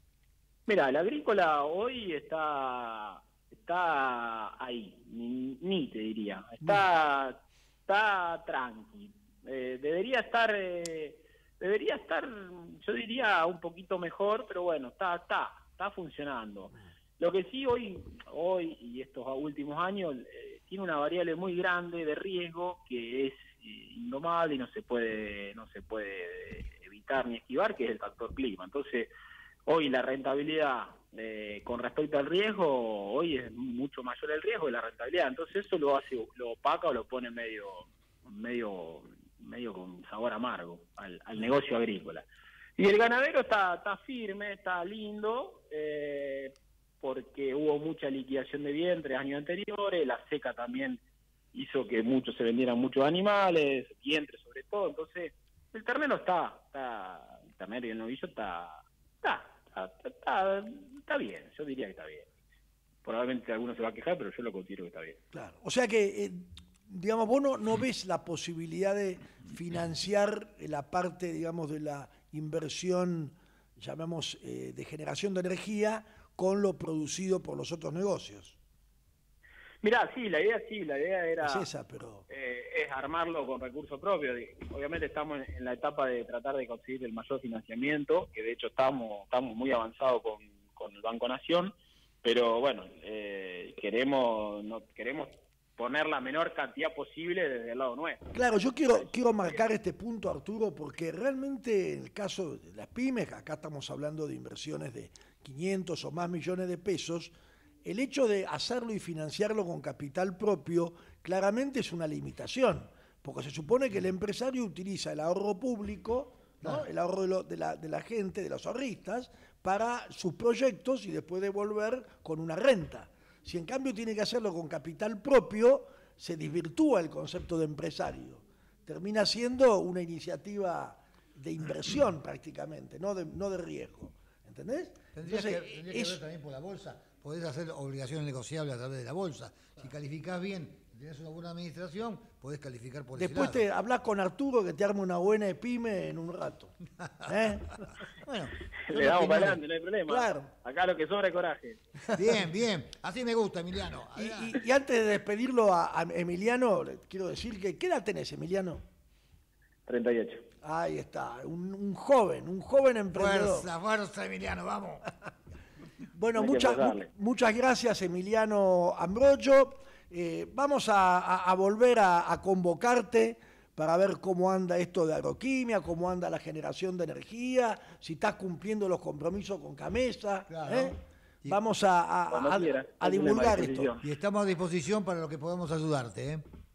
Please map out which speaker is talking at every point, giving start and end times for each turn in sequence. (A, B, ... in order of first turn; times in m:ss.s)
0:00.7-0:29.1 A
0:29.7-0:51.0 A
0:51.5-1:02.3 A
1:03.0-1:05.2 A
1:05.3-1:18.6 B
1:19.8-1:21.7 A
1:21.4-1:22.2 B
1:22.3-1:38.2 A
1:38.3-1:47.3 B
1:47.8-2:16.2 B
2:15.1-2:23.6 C
2:23.2-2:26.7 B
2:27.2-2:27.9 B
2:28.1-2:29.6 C
2:28.8-2:31.8 A
2:30.1-2:30.5 B
2:32.1-2:34.6 C
2:34.1-2:38.8 B
2:39.9-2:40.4 A
2:40.6-2:43.7 B
2:43.1-2:45.1 C
2:46.1-3:03.9 B
2:46.3-2:47.1 A
3:00.5-3:01.6 C
3:02.3-3:04.1 A
3:04.0-3:06.4 C